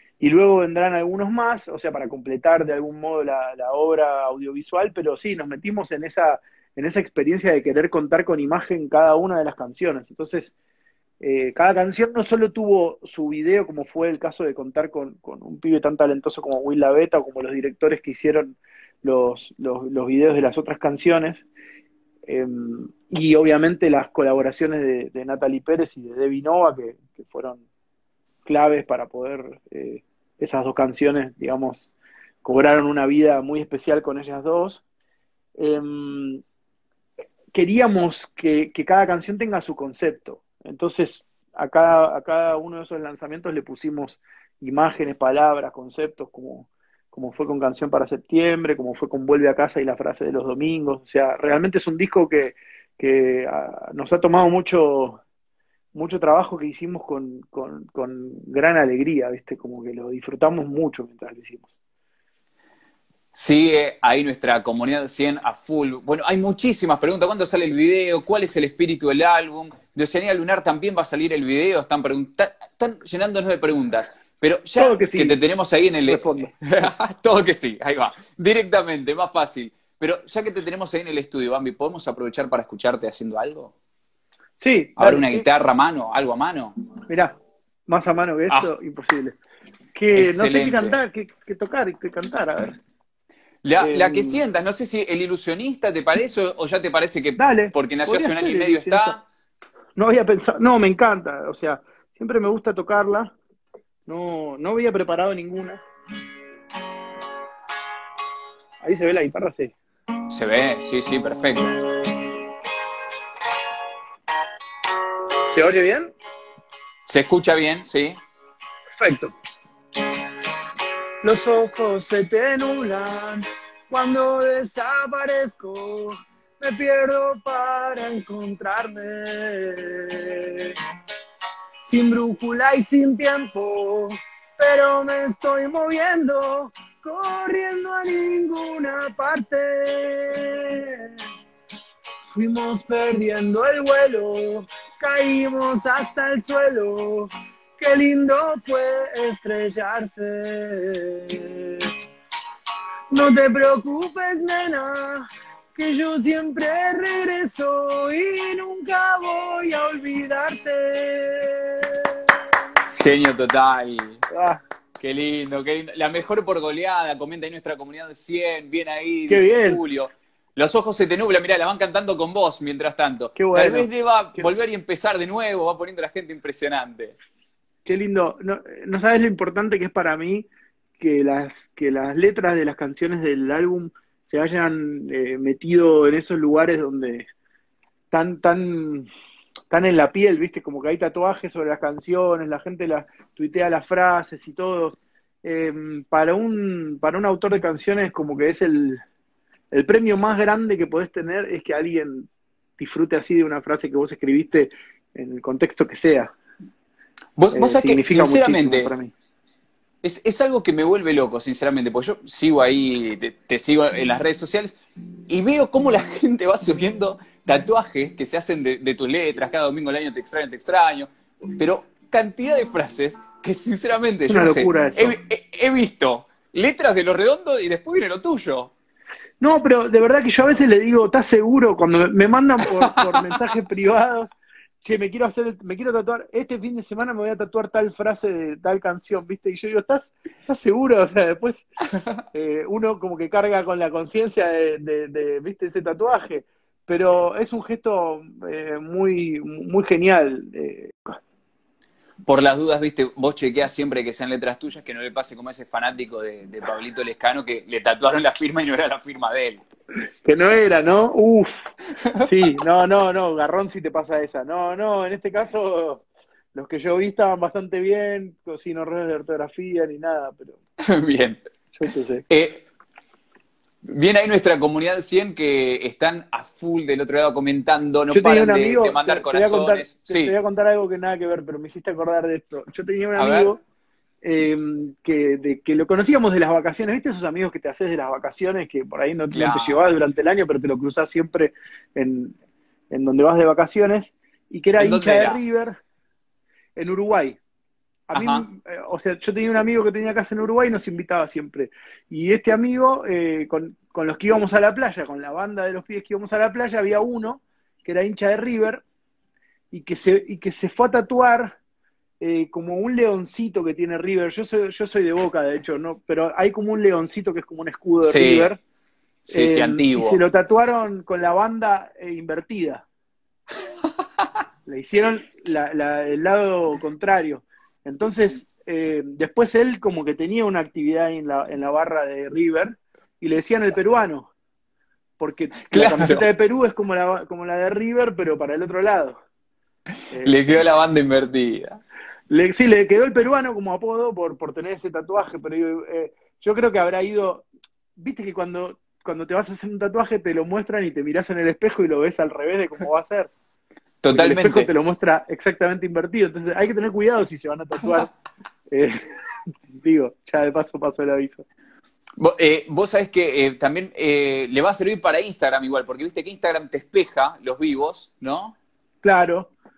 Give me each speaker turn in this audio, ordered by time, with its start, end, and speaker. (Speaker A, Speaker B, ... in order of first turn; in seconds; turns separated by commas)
Speaker A: 0.2-10.5, Speaker A: 11.2-21.5, Speaker A: 22.3-27.6, Speaker A: 28.4-31.9, Speaker A: 32.4-34.8, Speaker A: 35.6-36.4, Speaker A: 37.5-55.2, Speaker A: 55.9-61.7, Speaker B: 63.3-83.7, Speaker A: 74.8-75.4, Speaker A: 76.1-76.5, Speaker A: 84.6-85.5, Speaker B: 85.0-86.8, Speaker A: 87.1-87.3, Speaker A: 87.9-89.4, Speaker A: 89.9-92.8, Speaker B: 90.1-91.0, Speaker B: 93.6-99.2, Speaker A: 93.8-94.4, Speaker A: 97.4-99.2, Speaker A: 100.0-103.3, Speaker A: 104.1-105.8, Speaker A: 108.8-109.8, Speaker B: 110.3-111.8, Speaker A: 115.5-116.1, Speaker B: 117.1-118.2, Speaker A: 119.0-119.3, Speaker A: 121.2-130.8, Speaker A: 131.8-141.2, Speaker A: 142.3-151.9, Speaker A: 153.1-162.4, Speaker B: 162.9-164.2, Speaker A: 164.3-164.6, Speaker B: 165.0-177.2, Speaker A: 169.3-169.8, Speaker A: 173.4-174.4, Speaker A: 177.8-180.5, Speaker A: 181.0-187.3, Speaker A: 188.1-189.1, Speaker A: 189.7-199.0, Speaker A: 199.7-206.3, Speaker B: 207.4-208.9, Speaker A: 207.5-209.1, Speaker B: 210.0-228.7, Speaker A: 224.3-225.2, Speaker A: 229.4-241.7, Speaker B: 232.8-233.4, Speaker A: 242.3-251.1, Speaker B: 252.3-259.6, Speaker A: 260.2-261.5, Speaker B: 262.0-262.3, Speaker A: 262.2-270.6, Speaker B: 270.8-271.4, Speaker A: 271.8-272.2, Speaker B: 272.3-272.6, Speaker B: 273.9-280.3, Speaker A: 278.1-283.6, Speaker B: 283.1-283.5, Speaker A: 284.2-292.4, Speaker B: 289.3-289.8, Speaker A: 292.9-295.8, Speaker B: 294.8-295.4, Speaker A: 296.8-297.4, Speaker A: 298.1-308.8, Speaker B: 298.1-298.5, Speaker A: 309.7-311.6, Speaker A: 312.2-318.6, Speaker B: 318.0-318.5, Speaker B: 319.3-320.2, Speaker A: 319.3-322.9, Speaker A: 324.7-334.3, Speaker A: 335.2-339.2, Speaker B: 335.6-336.3, Speaker A: 340.1-340.6, Speaker B: 340.2-341.8, Speaker A: 342.3-353.3, Speaker B: 354.0-354.7, Speaker A: 354.1-358.1, Speaker A: 358.7-359.1, Speaker A: 359.7-361.4, Speaker B: 362.2-368.6, Speaker A: 369.0-369.5